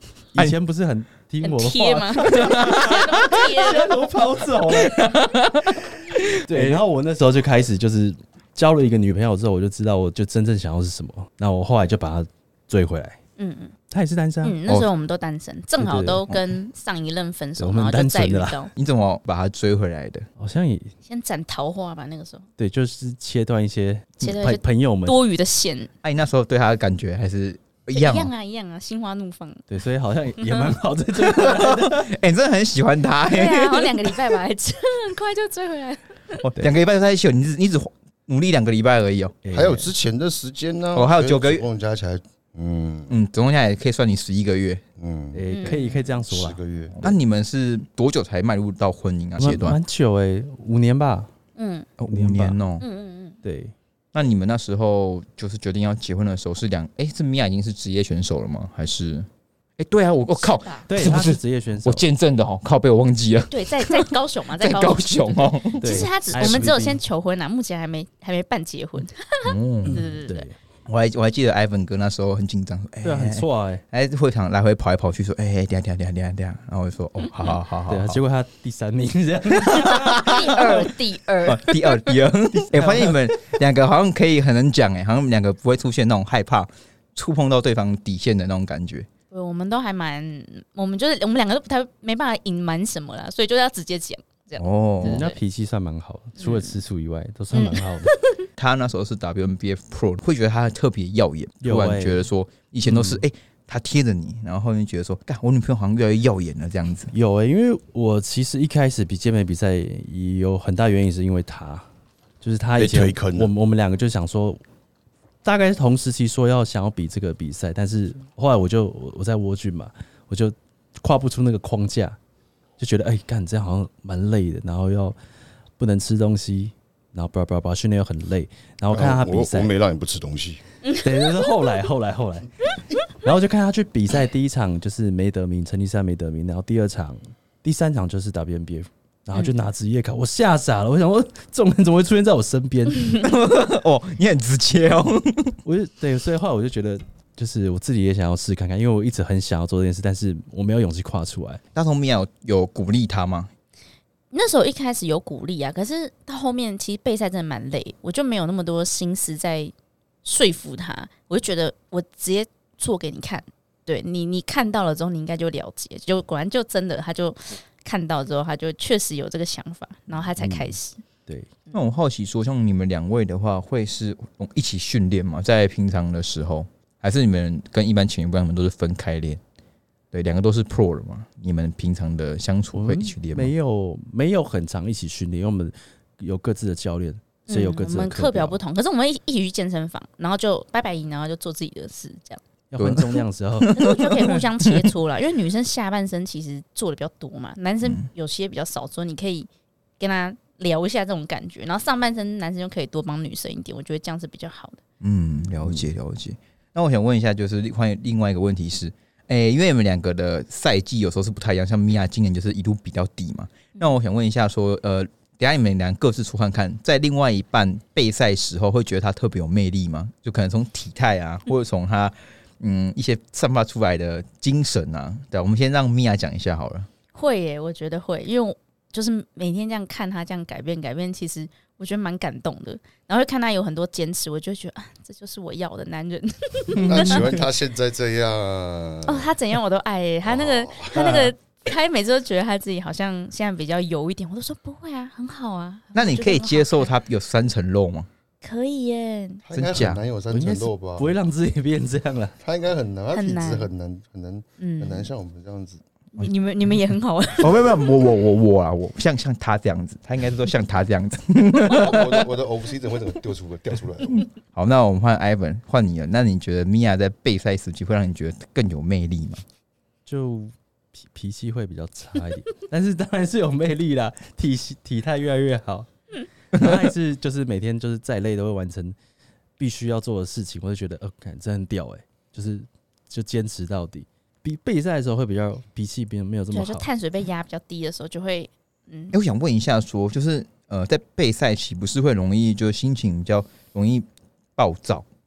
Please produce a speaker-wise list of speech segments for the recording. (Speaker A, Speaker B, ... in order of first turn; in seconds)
Speaker A: 0.3-5.1, 6.3-13.2, 13.9-14.6, 15.8-16.2, 17.6-18.6, 20.4-20.9, 22.6-25.2, 29.7-32.1, 36.4-36.7, 39.4-39.9, 45.3-46.6, 49.4-51.3, 52.1-52.6, 53.4-53.7, 60.9-62.0, 65.8-67.0, 69.8-70.5, 73.0-73.8, 77.9-80.2, 82.7-83.2, 95.0-98.1, 101.6-102.3, 102.8-103.2, 107.1-111.9, 112.4-114.6, 115.4-122.2, 122.8-125.2, 125.8-129.7, 130.9-143.1, 145.7-151.6, 170.4-171.5, 182.7-188.6, 192.7-193.8, 205.6-205.9, 236.7-237.4, 250.3-252.4, 270.1-275.9, 276.5-279.0, 279.6-286.9
Speaker B: 1.4-4.0, 13.4-13.7, 14.4-18.7, 21.1-22.5, 24.2-25.9, 27.9-29.6, 30.4-30.7, 33.3-36.4, 45.5-46.0, 51.6-51.9, 52.8-53.4, 60.4-60.9, 63.5-70.5, 79.7-81.9, 89.3-95.4, 96.4-96.8, 97.5-98.5, 154.3-159.7, 160.2-171.0, 187.5-192.4, 193.7-204.8, 227.1-237.3, 239.1-246.9, 248.4-249.4, 253.1-253.7, 254.6-255.1, 256.1-257.7, 286.5-289.2
Speaker C: 2.3-3.4, 4.7-6.8, 18.8-20.3, 26.0-28.3, 31.4-34.4, 36.6-39.4, 40.9-41.7, 43.1-44.8, 47.0-49.8, 52.0-52.8, 54.1-66.7, 69.5-70.0, 70.9-78.2, 79.6-80.8, 81.5-89.1, 94.6-95.2, 98.6-107.1, 143.1-145.6, 151.8-153.5, 171.7-179.4, 180.1-183.5, 192.8-194.9, 205.0-226.9, 245.9-248.1, 249.5-250.0, 257.4-262.3, 264.5-269.4, 289.1-295.1
Speaker D: 39.5-43.1, 45.0-45.7, 46.3-47.1, 112.8-113.5, 128.9-130.6, 236.8-239.3, 240.2-241.3, 249.4-251.1, 252.4-255.8, 261.6-264.3